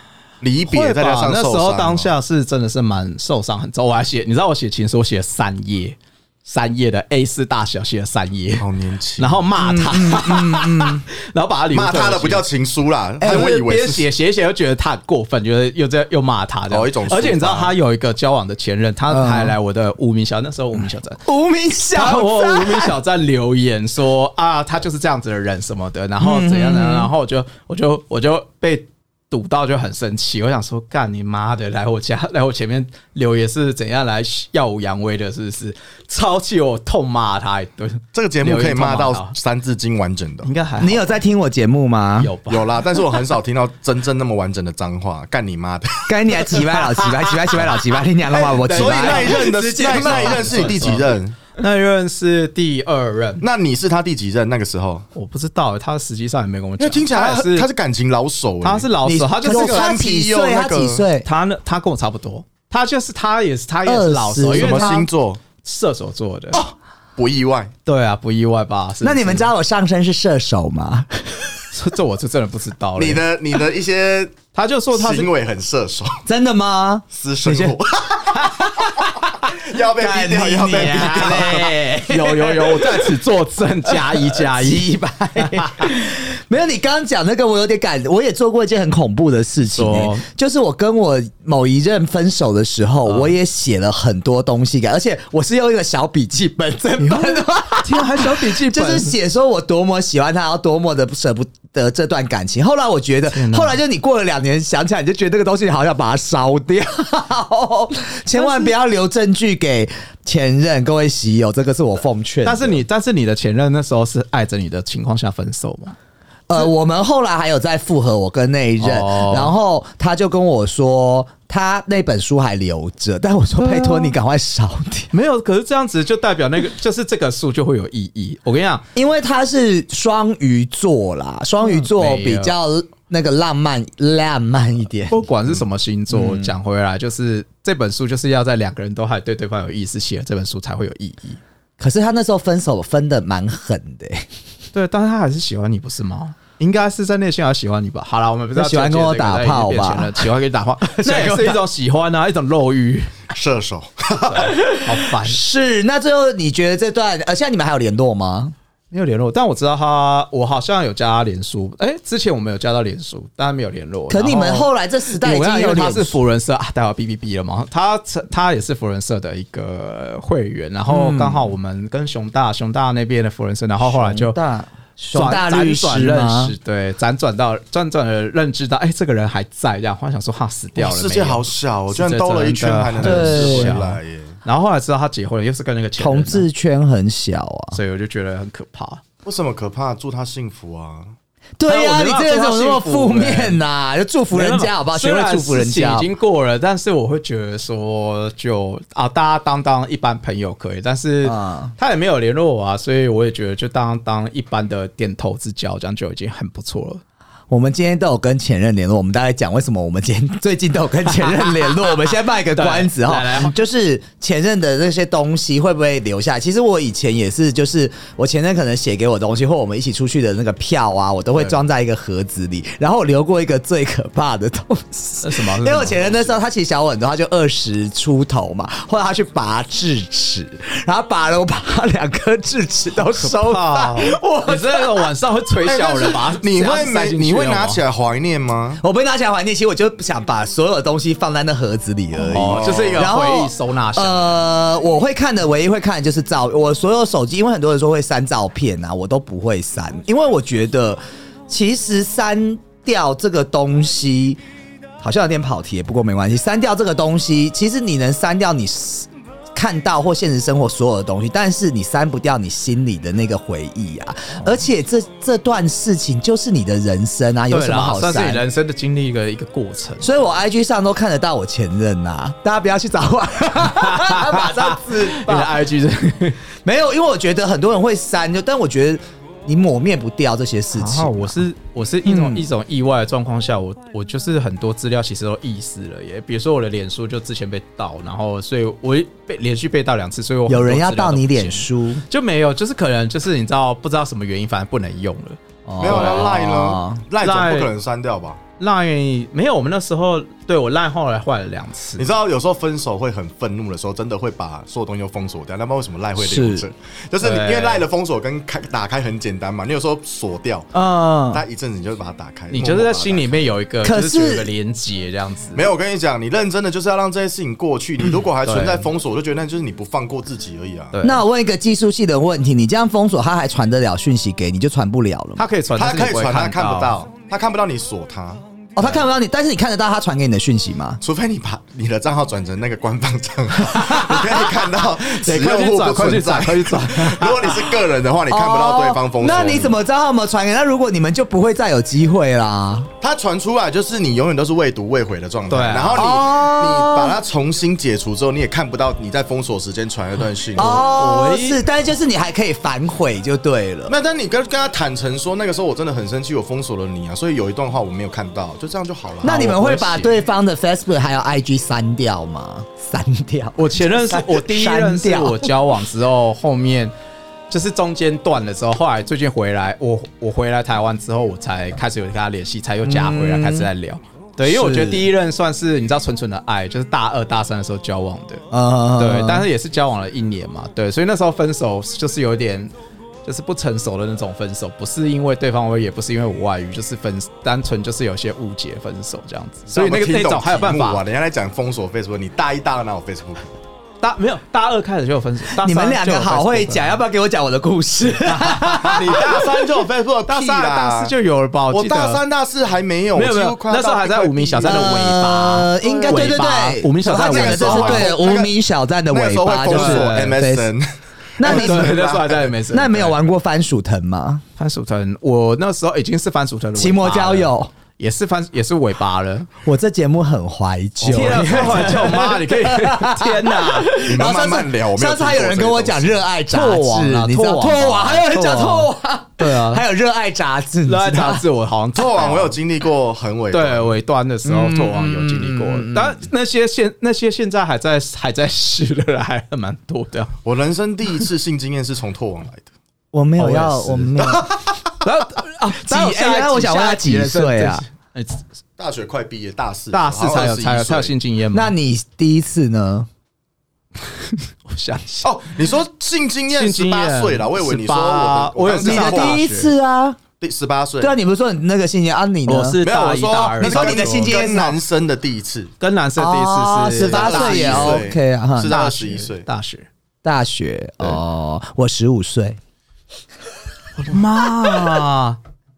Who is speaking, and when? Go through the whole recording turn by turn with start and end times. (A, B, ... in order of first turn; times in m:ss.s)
0:00.4-0:02.1 A
0:00.7-0:08.6 B
0:08.6-0:09.4 A
0:09.2-0:12.4 B
0:09.6-0:11.0 C
0:11.7-0:14.1 A
0:13.2-0:13.4 C
0:13.2-0:21.2 B
0:16.7-0:17.7 A
0:19.1-0:19.5 C
0:21.2-0:22.9 C
0:21.9-0:39.3 B
0:26.2-0:27.1 C
0:38.1-0:40.5 A
0:40.4-0:41.1 B
0:40.8-0:42.3 C
0:42.2-0:42.8 B
0:42.5-0:46.1 A
0:46.1-0:50.8 C
0:48.3-0:53.4 B
0:48.5-0:51.4 A
0:53.4-0:55.1 A
0:55.1-0:57.7 B
0:56.8-0:58.9 A
0:58.6-0:59.9 B
0:59.0-1:01.3 C
0:59.4-1:01.0 A
1:01.2-1:05.0 B
1:03.8-1:05.1 C
1:04.5-1:05.4 A
1:05.6-1:06.6 B
1:06.5-1:07.7 A
1:07.8-1:09.5 B
1:09.0-1:11.6 C
1:11.7-1:13.2 B
1:13.0-1:14.4 A
1:14.5-1:15.3 B
1:14.9-1:16.2 A
1:16.2-1:17.8 C
1:17.1-1:21.7 A
1:20.0-1:23.1 C
1:20.7-1:24.9 B
1:23.9-1:52.8 C
1:25.4-1:25.9 B
1:29.7-1:30.2 B
1:33.0-1:33.3 B
1:37.0-1:39.2 B
1:43.3-1:43.8 B
1:48.4-1:48.7 B
1:52.4-1:56.0 B
1:56.5-2:05.1 C
1:58.8-1:59.5 B
2:03.6-2:04.1 B
2:05.1-2:08.8 B
2:08.9-2:15.2 C
2:11.6-2:12.5 B
2:15.1-2:21.4 B
2:16.1-2:16.6 C
2:21.8-2:24.2 C
2:24.7-2:33.1 B
2:28.5-2:30.3 C
2:30.8-2:31.6 C
2:33.3-2:34.5 A
2:34.3-2:35.4 B
2:34.6-2:38.5 C
2:38.9-2:54.4 B
2:44.1-2:46.2 C
2:50.9-2:51.5 C
2:53.8-2:56.5 C
2:55.1-3:06.4 B
3:00.8-3:04.3 A
3:03.0-3:03.8 C
3:06.0-3:07.8 C
3:07.7-3:09.0 B
3:09.2-3:11.1 A
3:11.6-3:16.1 C
3:11.6-3:13.6 B
3:14.3-3:27.0 B
3:21.2-3:21.7 C
3:27.5-3:55.1 C
3:32.5-3:33.6 B
3:45.2-3:46.3 B
3:53.1-3:57.8 B
3:55.6-3:58.8 A
3:58.8-4:14.4 C
4:02.3-4:03.1 A
4:02.3-4:04.3 B
4:15.0-4:28.4 C
4:27.5-4:30.1 B
4:30.0-4:35.6 C
4:33.6-4:36.4 B
4:36.6-4:41.4 C
4:40.8-4:56.4 B
4:42.0-4:42.4 C
4:50.5-4:52.0 C
4:55.6-4:57.0 C
4:55.8-4:58.4 A
4:57.2-4:57.7 B
4:58.6-5:02.1 B
5:02.0-5:10.7 A
5:06.2-5:06.6 C
5:07.2-5:07.8 B
5:10.7-5:11.4 B
5:11.3-5:13.4 A
5:12.5-5:15.7 B
5:13.8-5:14.5 C
5:15.5-5:20.9 A
5:18.4-5:18.9 B
5:20.9-5:21.2 B
5:21.0-5:25.4 C
5:25.4-5:27.0 B
5:25.8-5:28.4 A
5:28.8-5:31.0 C
5:31.0-5:39.8 A
5:33.8-5:34.2 C
5:35.0-5:37.6 B
5:38.3-5:42.9 C
5:43.0-5:50.8 A
5:45.5-5:46.0 B
5:46.0-5:47.2 C
5:50.6-5:53.9 C
5:50.6-5:51.6 B
5:53.9-5:59.6 A
5:59.2-6:05.5 C
5:59.3-6:00.1 B
6:03.6-6:06.9 B
6:07.5-6:18.4 B
6:12.8-6:13.7 C
6:14.4-6:15.1 C
6:18.5-6:19.4 C
6:19.0-6:22.7 B
6:23.2-6:31.0 B
6:29.7-6:33.4 A
6:34.0-6:37.0 B
6:35.6-6:39.3 C
6:38.2-6:39.5 B
6:38.9-6:41.1 A
6:40.3-6:42.2 B
6:41.7-6:45.1 A
6:43.1-6:48.1 B
6:44.6-6:50.7 C
6:45.8-6:46.4 A
6:47.1-6:48.5 A
6:49.1-6:50.9 A
6:49.7-6:50.4 B
6:51.4-6:52.0 C
6:51.4-6:52.5 A
6:51.4-6:53.2 B
6:52.7-6:54.4 C
6:54.6-6:59.5 B
6:56.8-6:57.7 C
6:59.6-7:11.4 C
7:01.0-7:02.1 A
7:01.1-7:04.0 B
7:04.0-7:06.2 A
7:06.5-7:09.8 B
7:10.8-7:12.6 B
7:11.9-7:13.9 A
7:13.5-7:20.3 B
7:14.4-7:16.2 C
7:20.4-7:22.7 A
7:23.1-7:24.5 C
7:23.4-7:24.2 B
7:24.2-7:24.6 A
7:25.0-7:28.4 B
7:25.8-7:27.8 C
7:28.8-7:31.1 A
7:29.9-7:31.7 B
7:31.5-7:33.1 C
7:34.3-7:35.3 B
7:35.2-7:39.4 A
7:36.5-7:39.7 B
7:38.8-7:40.2 C
7:40.4-7:41.2 A
7:41.0-7:42.8 C
7:42.4-7:44.4 B
7:42.8-7:45.7 A
7:43.6-7:44.8 C
7:45.8-7:48.0 B
7:46.2-7:48.7 C
7:47.0-7:49.4 A
7:48.7-7:49.9 B
7:50.2-7:52.6 C
7:54.0-7:55.4 B